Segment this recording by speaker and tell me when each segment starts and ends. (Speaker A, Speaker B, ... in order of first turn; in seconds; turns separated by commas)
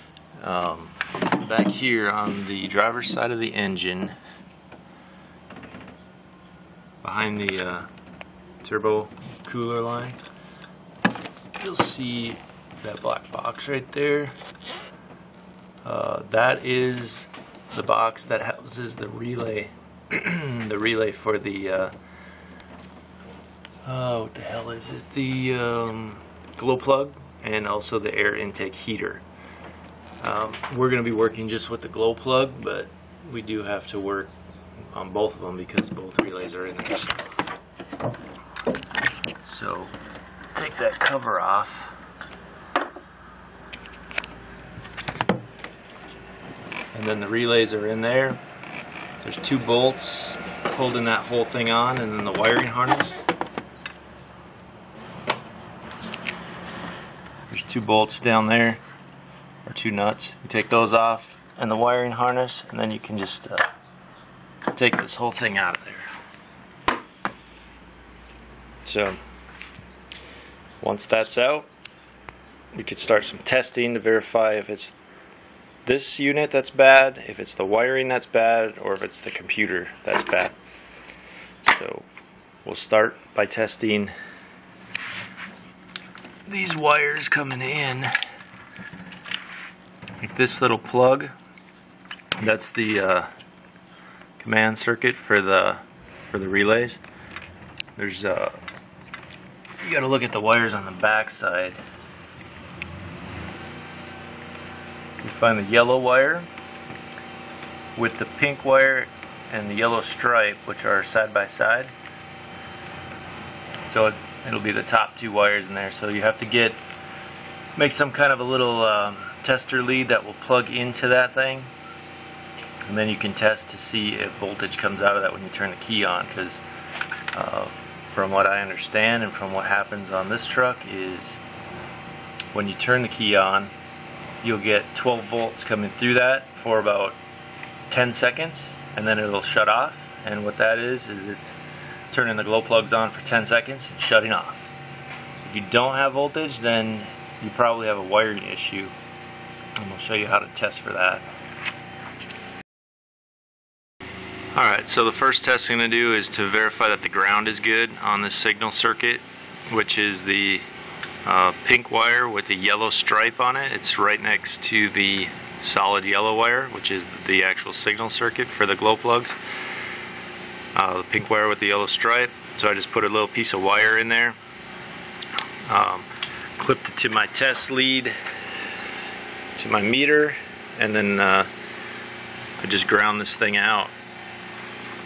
Speaker A: 0.4-4.2, Speaker A: 7.0-7.9, Speaker A: 8.6-10.2, Speaker A: 11.6-14.3, Speaker A: 15.8-21.9, Speaker A: 23.8-29.2, Speaker A: 30.2-34.3, Speaker A: 34.9-37.1, Speaker A: 39.5-39.9, Speaker A: 40.5-41.9, Speaker A: 46.9-48.4, Speaker A: 49.2-53.2, Speaker A: 57.5-58.8, Speaker A: 59.6-63.7, Speaker A: 64.7-66.1, Speaker A: 68.8-69.2, Speaker A: 70.8-71.7, Speaker A: 72.7-74.9, Speaker A: 75.8-80.5, Speaker A: 81.7-82.0, Speaker A: 82.6-84.1, Speaker A: 86.5-88.1, Speaker A: 90.2-91.3, Speaker A: 92.4-93.3, Speaker A: 94.4-97.0, Speaker A: 98.0-98.6, Speaker A: 99.8-101.8, Speaker A: 105.2-106.5, Speaker A: 108.0-111.9, Speaker A: 113.9-116.8, Speaker A: 117.8-121.7, Speaker A: 122.8-126.6, Speaker A: 127.3-131.4, Speaker A: 132.5-133.7, Speaker A: 134.4-137.2, Speaker A: 137.9-141.6, Speaker A: 142.1-144.7, Speaker A: 145.4-148.9, Speaker A: 149.8-151.2, Speaker A: 154.5-160.6, Speaker A: 161.2-169.3, Speaker A: 170.7-174.3, Speaker A: 175.7-178.2, Speaker A: 179.6-181.5, Speaker A: 182.6-183.9